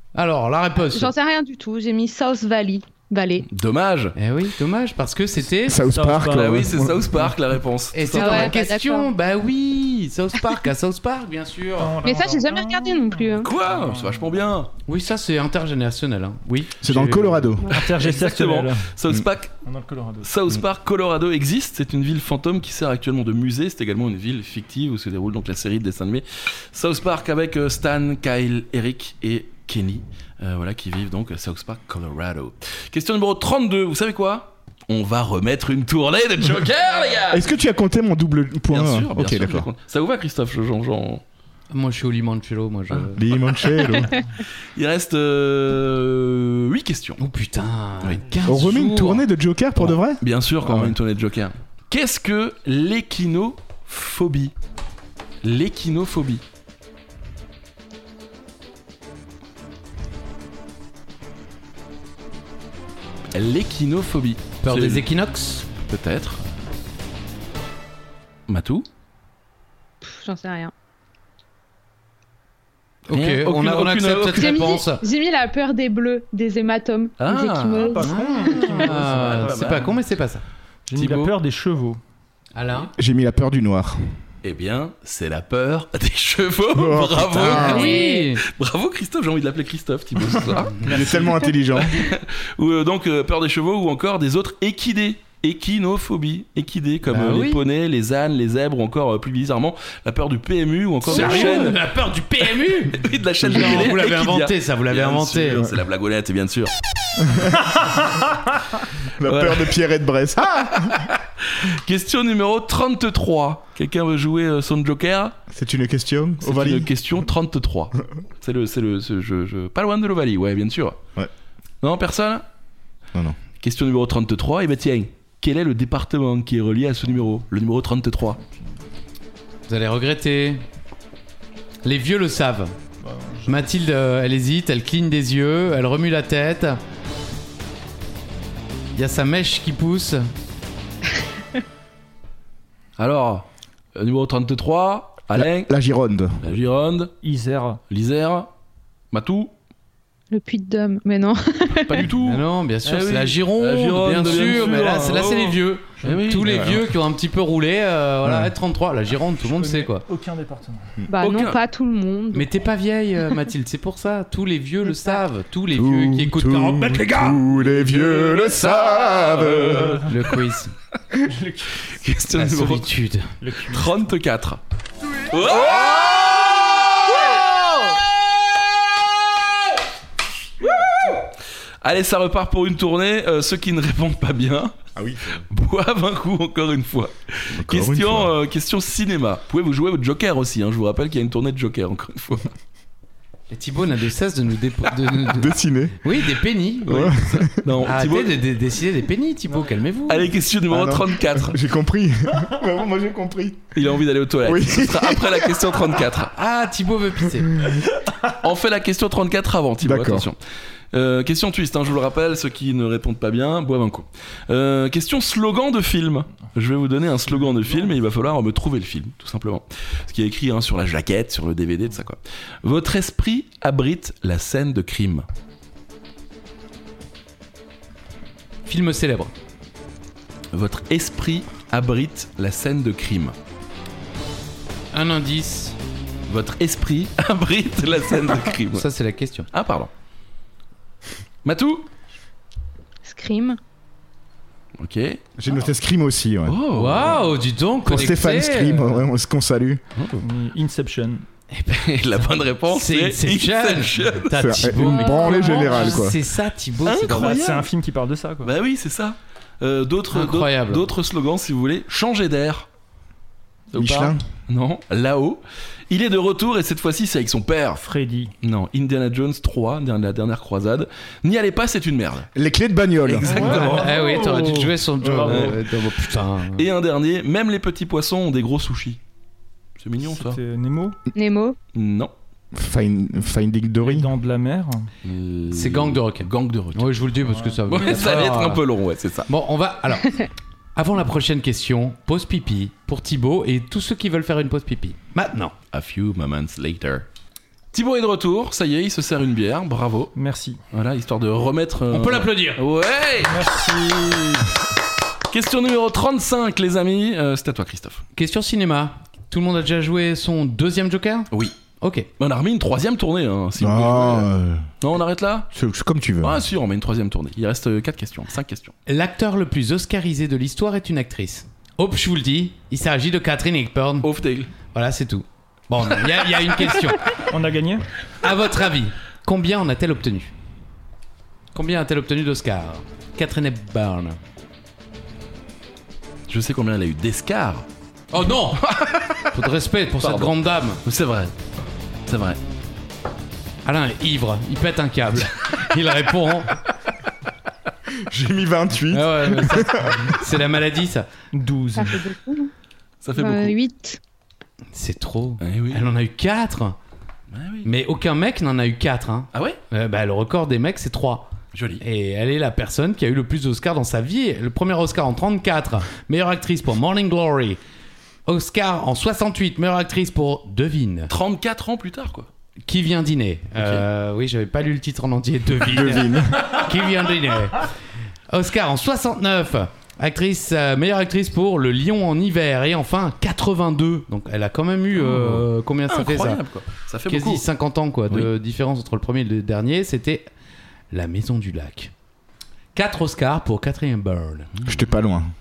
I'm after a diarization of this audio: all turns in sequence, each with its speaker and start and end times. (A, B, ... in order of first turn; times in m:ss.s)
0:00.1-0:01.1 A
0:00.9-0:03.4 B
0:03.5-0:04.1 C
0:04.2-0:05.9 A
0:05.6-0:07.3 D
0:05.9-0:06.7 E
0:06.2-0:08.5 C
0:07.9-0:12.0 A
0:08.1-0:09.1 B
0:11.8-0:14.3 E
0:12.0-0:13.5 B
0:13.4-0:14.7 C
0:14.8-0:17.5 A
0:16.8-0:17.7 D
0:17.6-0:18.9 E
0:17.7-0:19.5 C
0:19.6-0:20.3 E
0:20.2-0:37.4 C
0:37.3-0:39.7 D
0:38.7-0:41.2 C
0:41.7-0:43.4 A
0:43.1-0:44.2 D
0:44.7-0:47.2 C
0:47.2-0:49.3 A
0:48.4-0:50.9 D
0:49.8-0:54.5 C
0:55.4-0:56.4 C
1:03.3-1:05.1 C
1:04.6-1:05.7 A
1:05.8-1:06.4 C
1:08.5-1:08.9 C
1:10.0-1:10.7 B
1:13.1-1:15.0 A
1:13.1-1:14.7 C
1:14.3-1:18.7 B
1:17.2-1:18.0 C
1:17.8-1:19.8 E
1:18.0-1:20.4 A
1:18.6-1:19.9 C
1:20.9-1:22.0 E
1:21.0-1:21.3 C
1:22.5-1:22.9 A
1:23.0-1:24.0 D
1:24.4-1:30.8 C
1:26.7-1:27.9 D
1:27.2-1:28.4 A
1:27.4-1:28.3 B
1:30.8-1:31.2 A
1:30.8-1:32.1 D
1:30.8-1:31.3 E
1:31.8-1:41.8 C
1:37.1-1:37.6 A
1:41.0-1:45.6 A
1:42.9-1:46.7 C
1:47.2-1:47.7 D
1:49.0-1:51.1 D
1:49.2-1:49.8 C
1:50.7-1:55.4 C
1:55.5-1:56.9 D
1:56.4-2:01.0 C
2:01.8-2:02.4 C
2:03.6-2:08.4 C
2:09.7-2:10.6 A
2:11.8-2:12.7 A
2:13.0-2:13.5 E
2:13.4-2:16.8 A
2:18.9-2:20.3 A
2:23.0-2:25.7 C
2:25.3-2:26.4 D
2:26.4-2:27.1 C
2:27.2-2:27.8 E
2:27.9-2:28.5 C
2:29.1-2:29.5 C
2:30.3-2:32.1 B
2:31.8-2:36.8 C
2:32.1-2:40.0 A
2:34.3-2:35.3 E
2:36.0-2:36.3 E
2:36.5-2:36.8 D
2:38.2-2:38.5 D
2:39.4-2:40.9 E
2:41.1-2:42.5 B
2:41.2-2:41.6 C
2:42.3-2:48.1 A
2:45.7-2:50.1 D
2:48.1-2:49.9 C
2:49.7-2:50.1 E
2:49.9-2:50.7 A
2:51.2-2:51.8 E
2:51.7-2:52.9 C
2:52.3-2:53.4 A
2:53.4-2:53.9 E
2:53.6-2:54.6 C
2:55.3-2:57.7 C
3:00.6-3:01.2 C
3:01.8-3:04.8 C
3:05.0-3:05.4 D
3:05.4-3:12.5 C
3:07.6-3:08.3 D
3:13.5-3:17.1 A
3:15.3-3:16.1 D
3:16.8-3:18.4 C
3:16.9-3:17.6 D
3:17.8-3:20.3 A
3:20.1-3:21.6 C
3:20.7-3:23.7 D
3:23.7-3:26.3 C
3:24.4-3:25.8 D
3:26.3-3:27.7 A
3:27.5-3:27.8 D
3:28.3-3:30.4 C
3:29.8-3:30.3 D
3:30.9-3:45.3 C
3:48.6-3:49.3 A
3:50.5-3:53.4 C
3:54.9-3:55.8 A
3:56.3-3:58.9 C
3:58.7-3:59.5 A
3:59.5-3:59.9 C
4:01.4-4:01.9 C
4:03.0-4:03.6 B
4:04.8-4:05.2 C
4:05.4-4:06.6 D
4:06.4-4:07.2 C
4:06.7-4:09.1 A
4:07.8-4:09.8 D
4:09.9-4:10.2 C
4:10.2-4:11.2 E
4:11.5-4:12.0 A
4:11.7-4:14.3 C
4:12.6-4:17.4 A
4:14.3-4:16.2 D
4:14.8-4:16.0 B
4:16.8-4:17.7 C
4:17.0-4:18.5 E
4:18.4-4:22.7 C
4:20.1-4:20.9 A
4:23.7-4:27.8 C
4:23.7-4:24.2 D
4:27.8-4:28.3 E
4:28.4-4:32.3 C
4:32.3-4:33.7 D
4:33.0-4:34.1 C
4:33.2-4:35.6 E
4:33.4-4:36.7 A
4:35.2-4:35.6 C
4:36.5-4:39.0 C
4:39.8-4:40.4 C
4:40.0-4:41.0 E
4:41.1-4:41.6 B
4:41.7-4:42.1 C
4:42.5-4:44.1 D
4:43.8-4:44.9 E
4:45.0-4:46.9 C
4:45.5-4:48.6 A
4:47.3-4:47.6 E
4:47.7-4:49.3 C
4:49.3-4:50.2 A
4:50.7-4:55.5 A
4:55.7-4:57.0 C
4:57.7-5:00.1 C
5:00.1-5:00.6 E
5:00.7-5:03.4 C
5:01.9-5:02.6 A
5:03.2-5:04.5 E
5:05.3-5:08.0 C
5:08.1-5:12.1 A
5:12.2-5:15.5 C
5:13.6-5:14.7 D
5:15.5-5:16.4 D
5:16.2-5:18.7 C
5:18.9-5:24.1 A
5:24.0-5:24.5 C
5:24.7-5:27.2 A
5:27.3-5:27.9 E
5:28.2-5:30.3 A
5:31.5-5:34.2 A
5:36.3-5:37.6 C
5:38.1-5:38.6 A
5:38.3-5:39.3 C
5:39.3-5:40.8 A
5:40.0-5:41.3 C
5:42.1-5:42.4 C
5:43.6-5:46.6 A
5:48.0-5:50.2 D
5:48.9-5:51.1 A
5:51.3-5:52.0 E
5:51.7-5:52.5 B
5:53.0-5:53.6 C
5:53.2-5:54.0 B
5:54.7-5:56.8 A
5:55.4-5:55.9 C
5:57.3-5:57.7 C
5:57.6-6:07.6 A
5:59.3-5:59.6 C
6:01.5-6:01.8 C
6:08.2-6:11.1 A
6:11.1-6:12.3 C
6:12.6-6:17.7 A
6:13.6-6:13.8 C
6:15.6-6:16.5 D
6:18.3-6:26.4 A
6:25.0-6:27.4 C
6:27.1-6:30.3 A
6:30.9-6:31.9 A
6:32.7-6:34.5 A
6:34.6-6:34.9 C
6:34.6-6:35.3 D